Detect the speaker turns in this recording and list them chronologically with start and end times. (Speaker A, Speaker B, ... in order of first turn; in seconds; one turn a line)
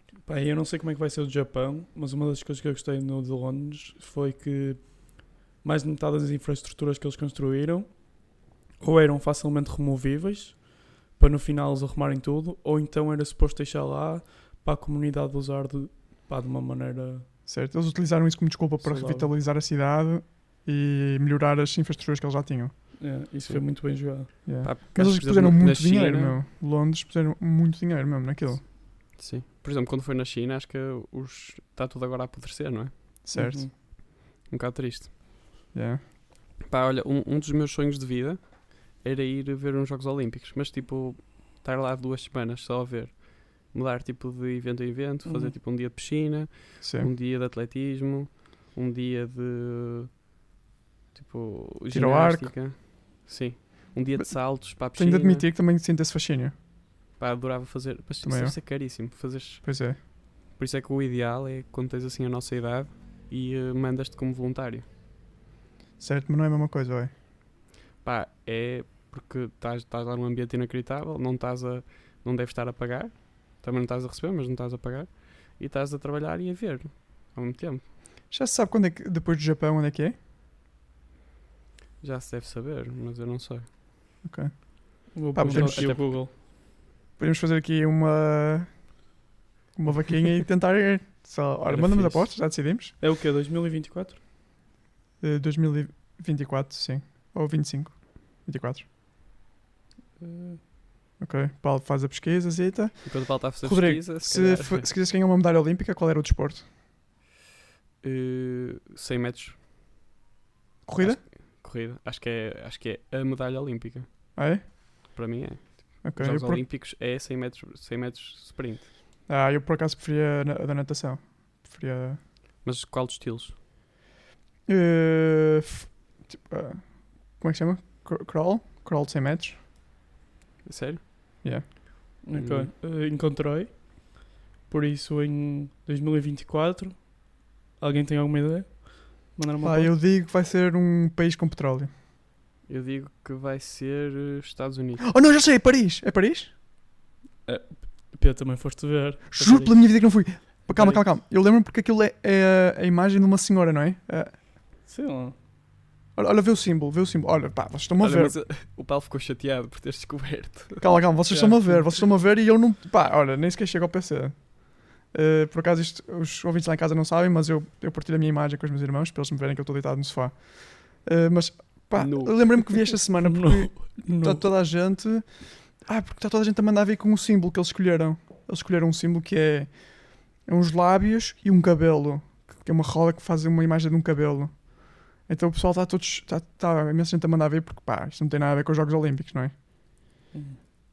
Speaker A: 0.2-17.3
Speaker B: 17.4-22.7
Speaker A: 18.8-19.3
Speaker A: 23.0-24.3
Speaker C: 24.3-26.4
Speaker B: 24.4-28.6
Speaker C: 29.1-32.9
Speaker B: 33.2-33.7
Speaker A: 33.3-33.7
Speaker C: 34.4-35.1
Speaker B: 35.7-36.0
Speaker C: 36.6-50.2
Speaker A: 45.2-45.5
Speaker B: 46.8-47.1
Speaker C: 51.1-55.5
Speaker B: 51.9-52.5
Speaker B: 54.1-56.5
Speaker C: 57.2-59.6
Speaker B: 58.2-58.6
Speaker B: 59.6-60.0
Speaker C: 60.5-64.8
Speaker B: 66.0-67.1
Speaker C: 68.0-77.8
Speaker B: 78.3-80.1
Speaker C: 82.0-83.7
Speaker B: 84.2-86.2
Speaker A: 85.1-86.3
Speaker C: 85.4-86.1
Speaker B: 87.2-89.0
Speaker B: 89.7-92.9
Speaker A: 91.7-92.4
Speaker C: 91.7-92.1
Speaker A: 93.0-94.2
Speaker B: 95.2-98.8
Speaker A: 100.2-100.6
Speaker B: 101.2-106.7
Speaker C: 103.0-104.9
Speaker C: 108.0-109.6
Speaker B: 110.8-111.2
Speaker C: 111.0-114.3
Speaker B: 114.3-114.7
Speaker C: 115.1-118.9
Speaker B: 116.0-116.6
Speaker B: 119.3-122.2
Speaker C: 122.6-123.5
Speaker B: 124.7-129.6
Speaker C: 130.6-131.0
Speaker A: 132.2-139.9
Speaker C: 132.3-132.7
Speaker B: 139.6-141.9
Speaker C: 142.7-145.0
Speaker B: 145.0-146.5
Speaker A: 147.4-151.1
Speaker B: 149.3-154.3
Speaker A: 154.8-155.3
Speaker B: 156.1-158.3
Speaker C: 158.0-160.8
Speaker B: 160.8-189.5
Speaker A: 161.3-161.9
Speaker C: 171.9-172.6
Speaker A: 173.2-174.5
Speaker A: 190.3-190.6